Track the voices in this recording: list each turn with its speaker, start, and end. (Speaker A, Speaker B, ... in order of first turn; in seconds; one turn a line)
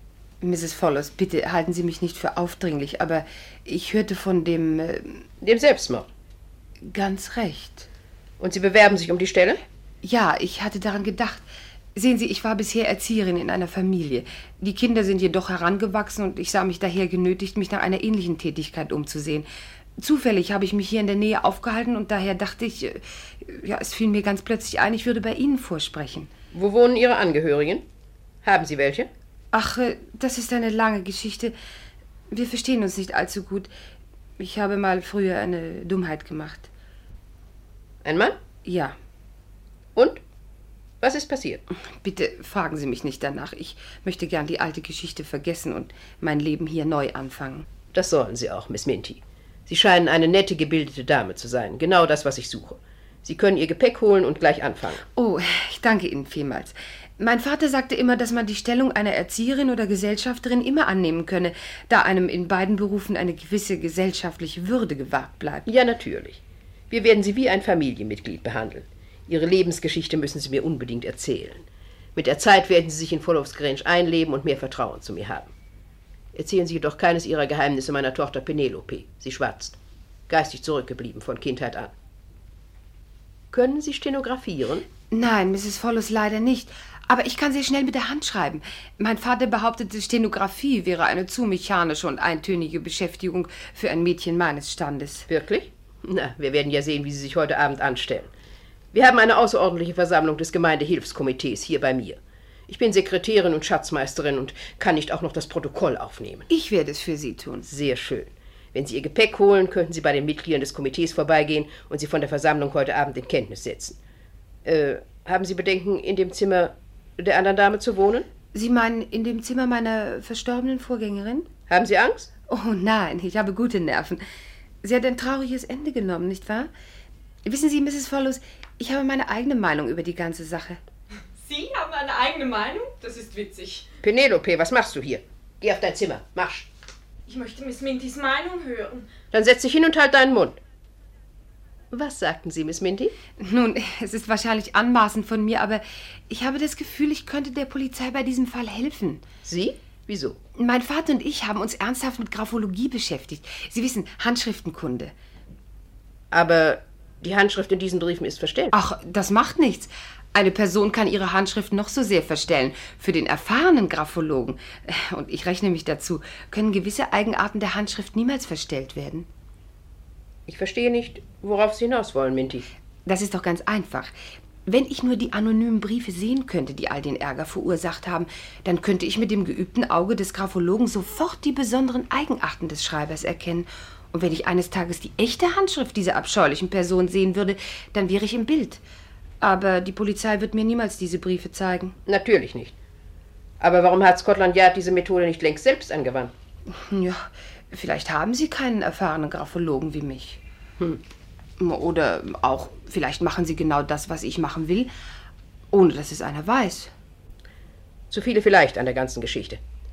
Speaker A: 0.4-5.3
Speaker B: 5.4-6.1
Speaker A: 6.8-7.9
Speaker B: 8.4-9.6
Speaker A: 10.0-19.5
Speaker A: 20.0-26.3
Speaker B: 26.5-27.9
Speaker B: 28.4-29.1
Speaker A: 29.5-31.5
Speaker A: 32.3-33.7
Speaker A: 34.4-36.7
Speaker B: 38.0-38.4
Speaker A: 38.6-39.0
Speaker B: 41.0-41.6
Speaker A: 42.0-47.7
Speaker B: 47.9-55.0
Speaker A: 55.1-65.7
Speaker B: 65.7-71.7
Speaker B: 72.2-75.5
Speaker B: 76.3-79.8
Speaker B: 80.3-81.9
Speaker B: 83.5-84.9
Speaker A: 85.1-95.3
Speaker B: 95.3-98.3
Speaker B: 98.9-106.5
Speaker A: 106.5-107.7
Speaker B: 107.7-114.0
Speaker B: 114.7-118.3
Speaker A: 118.5-121.5
Speaker B: 121.7-122.3
Speaker A: 122.5-124.2
Speaker A: 124.8-126.7
Speaker A: 127.5-130.8
Speaker C: 131.4-133.9
Speaker B: 134.0-136.7
Speaker C: 137.3-139.1
Speaker B: 139.3-140.6
Speaker B: 141.9-143.1
Speaker A: 143.4-149.2
Speaker B: 149.4-150.4
Speaker A: 150.6-155.1
Speaker B: 156.3-158.7
Speaker A: 158.7-169.3
Speaker B: 170.5-172.7
Speaker A: 173.1-174.1
Speaker A: 174.7-188.8
Speaker A: 189.4-192.0
Speaker B: 192.1-192.7
Speaker B: 193.6-196.3
Speaker A: 196.7-200.4
Speaker A: 201.6-204.9
Speaker A: 205.7-206.9
Speaker B: 208.1-209.6